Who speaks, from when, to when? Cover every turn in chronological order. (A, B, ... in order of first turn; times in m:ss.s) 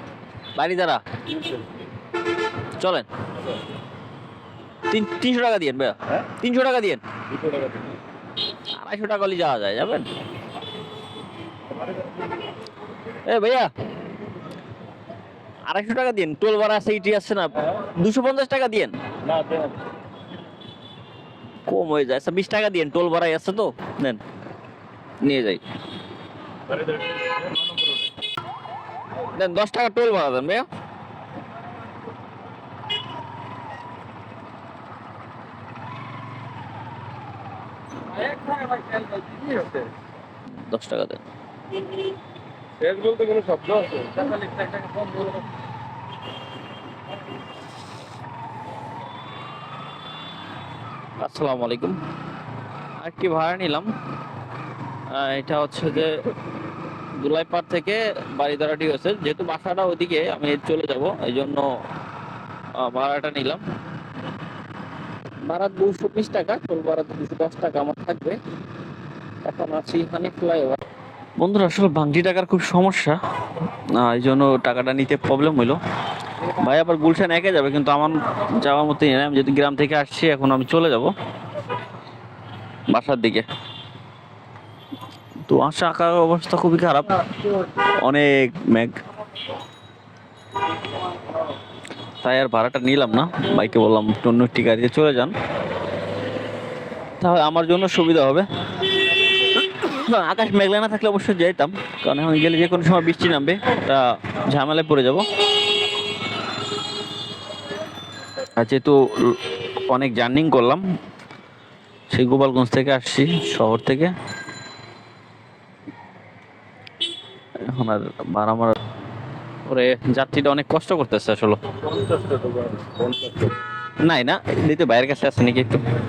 0:00.6-0:01.0 A
0:02.8-0:03.1 A
0:04.9-0:07.0 A
0:07.3-0:08.0 B
0:08.8-0:10.1 A
0:13.3-0:13.7 A
0:15.7-0:19.0 A
0:19.2-0:19.8 B
0:21.7-0:24.2 A
0:25.2-0:25.6 A
0:26.7-0:27.6 B
0:29.3-0:30.7 A
0:38.5-0:39.8 B
0:40.5-0:41.2 A
0:42.8-0:45.3 B
0:51.2-0:52.0 A
0:53.0-0:53.9 A
0:55.1-0:56.2 A
0:57.2-1:01.7 A
1:02.8-1:03.6 A
1:05.5-1:08.4 A
1:09.4-1:10.8 A
1:11.4-1:13.2 A
1:13.9-1:15.8 A
1:16.4-1:21.1 A
1:22.9-1:23.4 A
1:25.5-1:27.5 A
1:28.0-1:29.0 A
1:32.2-1:35.4 A
1:37.2-1:38.5 A
1:39.4-1:45.3 A
1:48.6-1:50.8 A
1:52.1-1:54.1 A
1:57.6-1:58.8 A
1:59.7-2:01.6 A
2:01.8-2:03.6 B
2:04.0-2:05.8 A